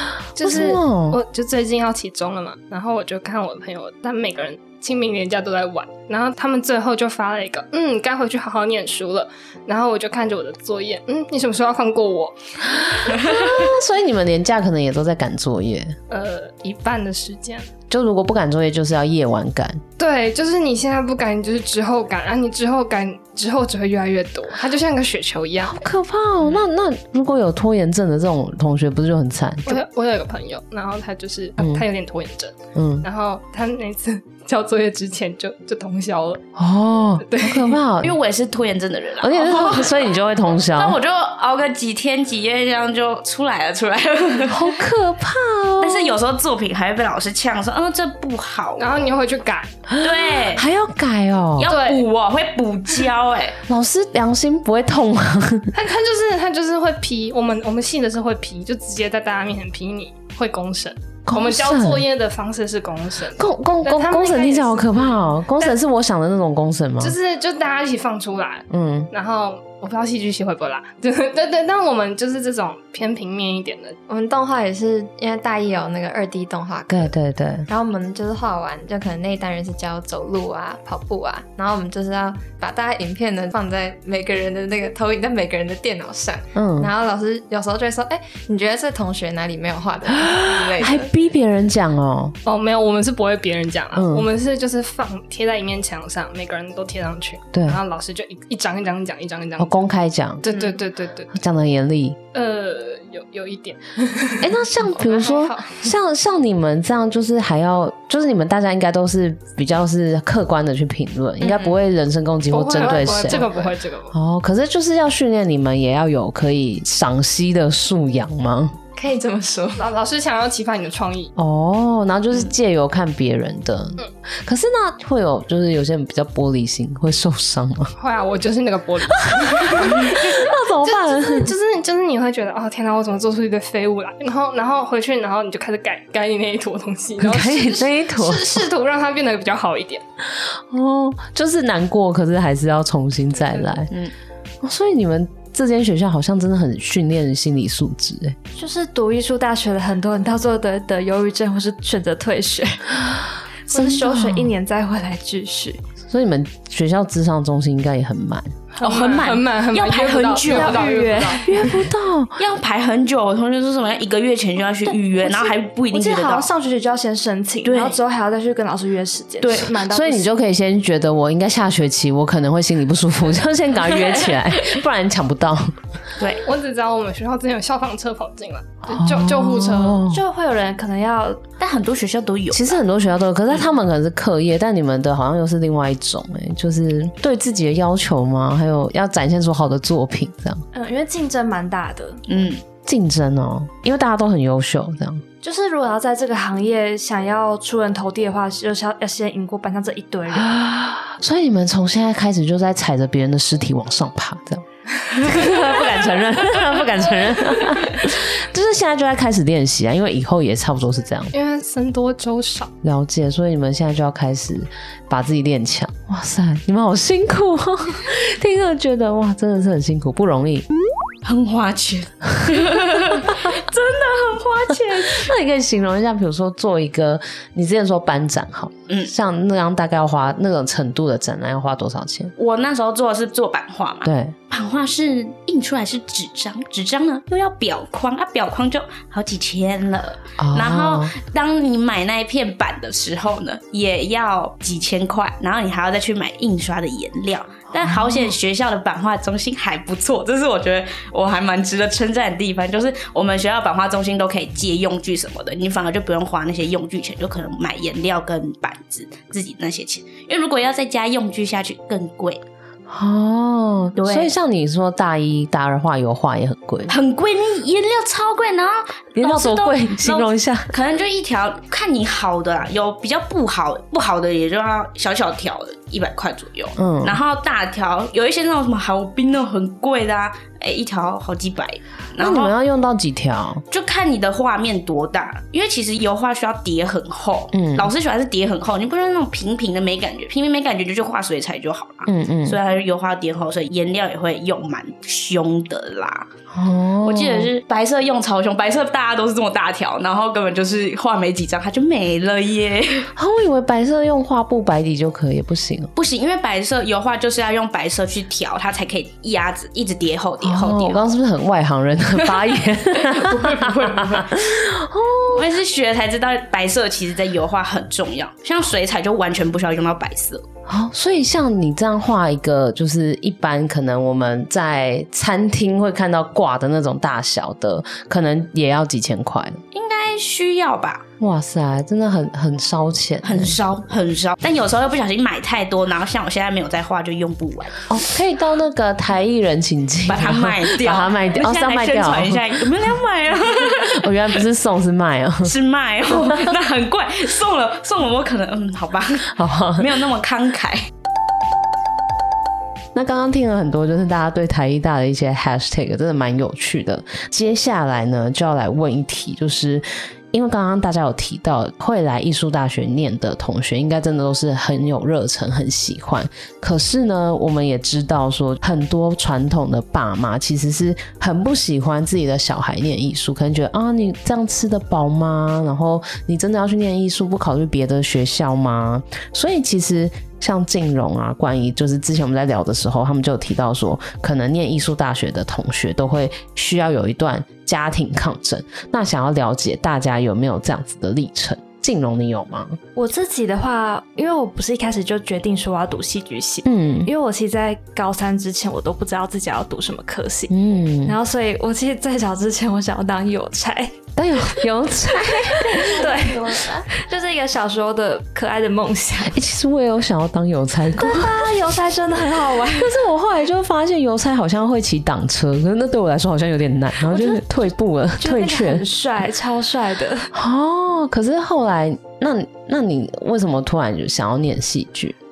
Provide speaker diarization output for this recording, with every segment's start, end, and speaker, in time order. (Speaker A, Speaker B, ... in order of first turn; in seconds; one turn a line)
Speaker A: 0.3-13.7
Speaker B: 0.4-1.2
Speaker B: 13.1-15.9
Speaker A: 16.1-17.7
Speaker B: 17.9-19.8
Speaker A: 20.0-25.8
Speaker B: 25.6-29.8
Speaker A: 29.6-36.4
Speaker B: 31.6-31.8
Speaker B: 32.7-33.1
Speaker B: 36.5-38.1
Speaker A: 37.2-37.8
Speaker C: 38.0-40.0
Speaker B: 39.2-41.0
Speaker C: 40.7-44.7
Speaker B: 44.5-46.2
Speaker C: 45.8-48.9
Speaker A: 48.8-49.7
Speaker B: 50.0-51.7
Speaker C: 50.0-50.7
Speaker C: 51.6-53.5
Speaker A: 51.7-52.1
Speaker B: 53.7-55.7
Speaker A: 55.7-65.8
Speaker B: 61.3-62.0
Speaker B: 63.4-67.2
Speaker A: 67.0-74.0
Speaker B: 68.7-69.1
Speaker D: 74.1-77.1
Speaker B: 76.9-77.7
Speaker D: 77.7-91.1
Speaker B: 86.5-86.9
Speaker B: 90.2-92.3
Speaker A: 92.4-99.9
Speaker B: 93.9-94.3
Speaker B: 97.5-97.8
Speaker B: 99.6-100.5
Speaker A: 100.4-101.3
Speaker B: 101.3-102.2
Speaker A: 102.3-104.5
Speaker B: 104.4-113.5
Speaker D: 105.1-105.5
Speaker D: 111.4-111.8
Speaker A: 112.5-114.1
Speaker B: 114.1-118.8
Speaker D: 119.0-119.8
Speaker A: 119.8-121.3
Speaker B: 121.3-127.9
Speaker A: 128.0-140.0
Speaker B: 129.7-131.5
Speaker B: 137.2-138.6
Speaker B: 140.7-143.9
Speaker A: 143.4-143.7
Speaker B: 144.6-148.3
Speaker E: 148.6-153.1
Speaker E: 153.7-155.8
Speaker B: 153.7-154.5
Speaker B: 156.1-158.6
Speaker A: 158.7-161.7
Speaker C: 158.8-161.2
Speaker E: 160.5-161.4
Speaker B: 161.4-162.3
Speaker C: 162.4-166.5
Speaker E: 164.8-170.3
Speaker C: 167.6-167.9
Speaker C: 169.4-169.7
Speaker B: 169.7-175.8
Speaker A: 176.4-180.0
Speaker B: 178.9-180.2
Speaker E: 180.0-181.4
Speaker C: 181.6-182.8
Speaker B: 182.5-190.6
Speaker E: 190.7-192.2
Speaker C: 192.3-192.6
Speaker B: 192.8-195.2
Speaker E: 195.4-200.5
Speaker B: 200.3-204.6
Speaker B: 205.2-211.3
Speaker A: 211.3-212.7
Speaker B: 212.8-220.7
Speaker C: 221.2-225.3
Speaker B: 225.0-232.3
Speaker C: 232.4-262.4
Speaker B: 234.0-234.3
Speaker B: 240.4-241.1
Speaker B: 247.7-248.3
Speaker B: 262.9-266.9
Speaker C: 264.0-264.3
Speaker C: 266.9-282.5
Speaker B: 269.1-270.7
Speaker B: 276.8-277.2
Speaker B: 282.2-283.6
Speaker C: 283.7-296.3
Speaker B: 287.5-287.9
Speaker B: 292.1-292.6
Speaker B: 296.5-297.5
Speaker C: 297.0-303.1
Speaker B: 303.1-305.9
Speaker C: 305.9-311.0
Speaker B: 310.4-315.5
Speaker C: 313.0-314.3
Speaker C: 315.3-320.4
Speaker B: 320.7-329.6
Speaker C: 329.7-331.0
Speaker B: 331.2-333.6
Speaker C: 333.2-337.8
Speaker B: 337.9-342.6
Speaker C: 340.1-344.1
Speaker B: 343.6-345.5
Speaker C: 345.4-350.9
Speaker B: 346.1-346.5
Speaker B: 349.3-349.9
Speaker B: 352.9-392.8
Speaker E: 392.9-400.5
Speaker B: 396.6-397.1
Speaker B: 400.5-401.2
Speaker E: 401.1-404.0
Speaker B: 404.2-406.1
Speaker E: 405.7-409.4
Speaker D: 405.8-406.7
Speaker B: 409.3-411.5
Speaker E: 411.0-412.9
Speaker B: 412.6-418.9
Speaker E: 417.1-417.4
Speaker E: 418.2-420.3
Speaker B: 420.3-425.1